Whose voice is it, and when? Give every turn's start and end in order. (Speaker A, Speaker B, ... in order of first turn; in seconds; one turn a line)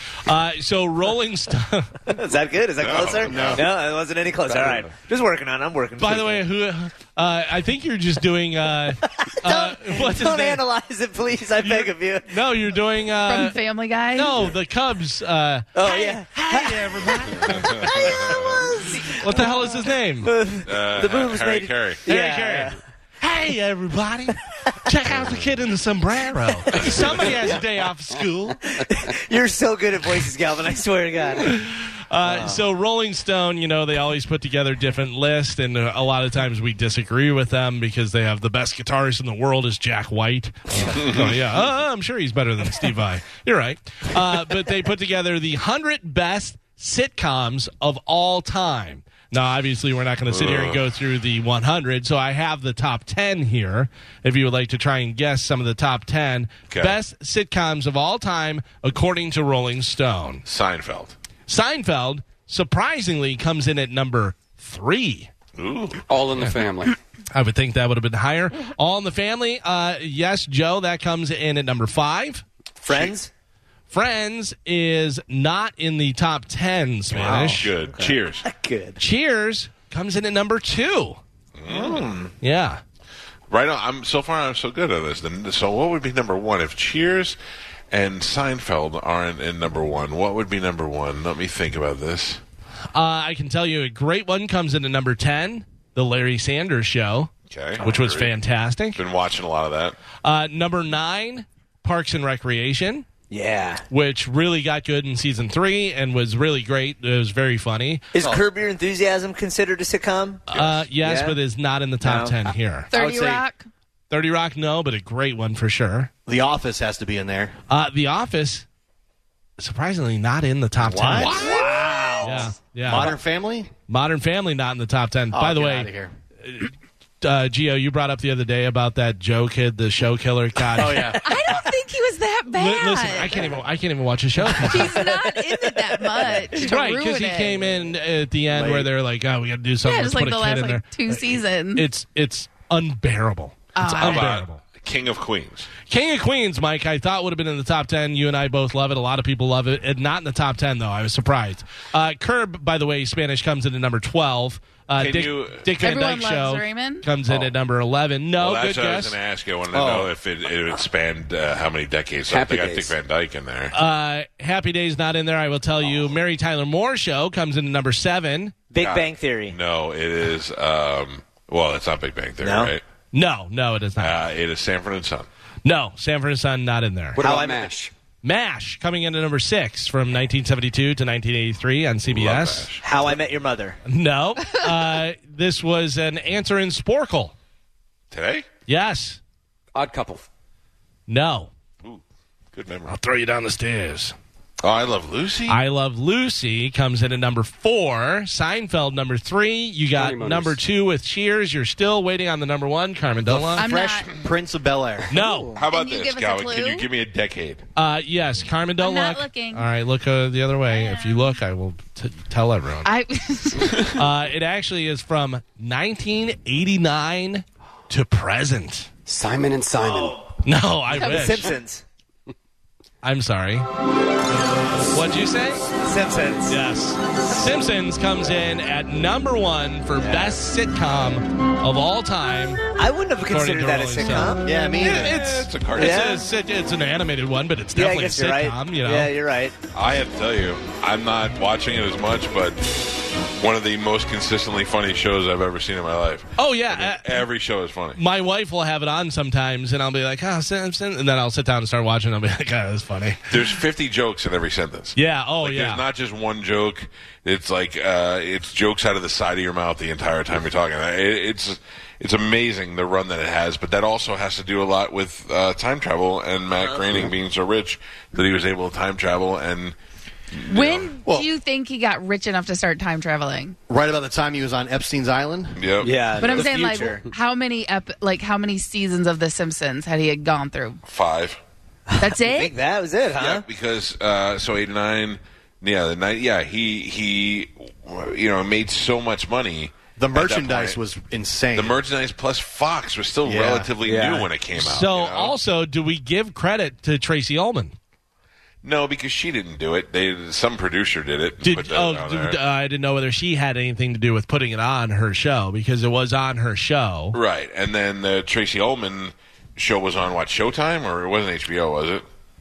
Speaker A: 0.2-2.0
Speaker B: 2.1-6.4
Speaker C: 2.8-3.7
Speaker D: 3.2-3.7
Speaker A: 6.0-10.6
Speaker B: 9.0-12.3
Speaker A: 11.6-13.6
Speaker E: 13.2-14.4
Speaker A: 14.1-18.3
Speaker B: 15.7-19.5
Speaker C: 17.5-18.6
Speaker A: 19.0-20.3
Speaker B: 20.2-22.8
Speaker C: 20.6-22.0
Speaker A: 22.1-28.6
Speaker C: 26.7-27.5
Speaker B: 27.3-27.6
Speaker B: 28.7-31.5
Speaker A: 31.4-60.4
Speaker B: 32.2-32.6
Speaker C: 40.8-41.4
Speaker C: 50.3-50.8
Speaker C: 56.7-57.0
Speaker C: 60.4-61.1
Speaker A: 61.5-65.3
Speaker C: 65.5-66.0
Speaker F: 66.1-67.0
Speaker A: 67.3-72.4
Speaker B: 72.8-73.3
Speaker C: 72.9-73.1
Speaker A: 73.9-77.7
Speaker C: 77.1-78.5
Speaker B: 77.2-79.0
Speaker A: 79.0-81.2
Speaker C: 81.5-82.2
Speaker B: 81.7-82.3
Speaker A: 82.4-82.8
Speaker C: 83.5-87.4
Speaker C: 87.9-92.4
Speaker A: 92.9-99.0
Speaker C: 97.5-98.3
Speaker C: 98.9-100.0
Speaker A: 100.2-103.0
Speaker B: 103.3-103.8
Speaker A: 103.9-108.0
Speaker B: 108.1-110.4
Speaker D: 108.2-108.4
Speaker A: 110.5-112.9
Speaker C: 110.5-110.9
Speaker B: 111.0-111.4
Speaker B: 112.0-112.4
Speaker E: 112.9-113.7
Speaker D: 112.9-113.4
Speaker A: 114.1-116.1
Speaker D: 116.2-117.5
Speaker A: 117.7-118.7
Speaker A: 119.6-121.6
Speaker D: 120.8-121.7
Speaker C: 121.2-121.6
Speaker B: 121.3-122.5
Speaker A: 122.2-123.2
Speaker D: 122.3-123.7
Speaker A: 123.9-125.9
Speaker D: 125.3-126.1
Speaker A: 126.4-131.2
Speaker D: 130.8-131.2
Speaker E: 131.2-133.5
Speaker A: 132.5-135.0
Speaker E: 134.6-137.6
Speaker B: 135.1-136.4
Speaker A: 136.5-144.6
Speaker D: 138.5-138.9
Speaker E: 139.8-141.8
Speaker E: 143.7-144.3
Speaker C: 143.8-145.7
Speaker A: 145.9-159.2
Speaker C: 154.9-155.7
Speaker E: 155.8-157.1
Speaker C: 158.4-163.8
Speaker D: 159.7-160.1
Speaker F: 162.3-162.9
Speaker A: 163.7-168.5
Speaker B: 168.7-169.6
Speaker C: 168.8-172.8
Speaker B: 172.4-172.7
Speaker A: 173.1-174.2
Speaker C: 174.0-175.3
Speaker A: 175.6-177.2
Speaker F: 177.2-177.9
Speaker B: 177.2-177.8
Speaker A: 178.2-182.7
Speaker C: 182.0-182.8
Speaker B: 182.8-183.8
Speaker A: 183.8-187.3
Speaker C: 188.1-188.4
Speaker A: 188.7-189.2
Speaker F: 189.7-190.2
Speaker A: 191.1-191.5
Speaker C: 192.5-192.9
Speaker A: 192.9-194.1
Speaker C: 194.6-195.6
Speaker A: 195.5-203.7
Speaker F: 199.9-200.6
Speaker D: 203.3-205.1
Speaker E: 203.6-204.1
Speaker A: 205.1-205.6
Speaker C: 205.6-207.6
Speaker E: 205.7-206.9
Speaker A: 207.8-212.9
Speaker E: 208.8-209.7
Speaker E: 210.7-211.2
Speaker E: 212.8-213.9
Speaker A: 213.9-218.9
Speaker F: 219.1-220.2
Speaker A: 220.4-221.5
Speaker B: 220.9-221.8
Speaker A: 223.0-223.7
Speaker A: 224.9-225.7
Speaker B: 225.8-226.6
Speaker A: 226.5-232.6
Speaker B: 230.0-230.3
Speaker B: 232.8-234.4
Speaker A: 233.3-239.1
Speaker D: 234.4-235.2
Speaker C: 234.8-236.2
Speaker B: 235.7-236.2
Speaker B: 237.8-239.5
Speaker C: 239.7-248.0
Speaker A: 246.4-247.2
Speaker A: 247.9-253.6
Speaker C: 253.3-269.7
Speaker A: 254.9-255.8
Speaker C: 270.3-270.9
Speaker E: 270.5-273.6
Speaker D: 273.7-275.6
Speaker C: 275.6-276.9
Speaker B: 275.8-277.1
Speaker E: 276.2-280.8
Speaker C: 280.9-281.4
Speaker B: 281.9-283.4
Speaker E: 282.0-282.5
Speaker C: 283.2-290.8
Speaker D: 290.0-291.8
Speaker C: 291.5-295.3
Speaker D: 293.2-293.7
Speaker B: 293.8-294.3
Speaker A: 294.6-297.8
Speaker C: 298.6-302.4
Speaker A: 301.4-307.2
Speaker C: 307.1-312.0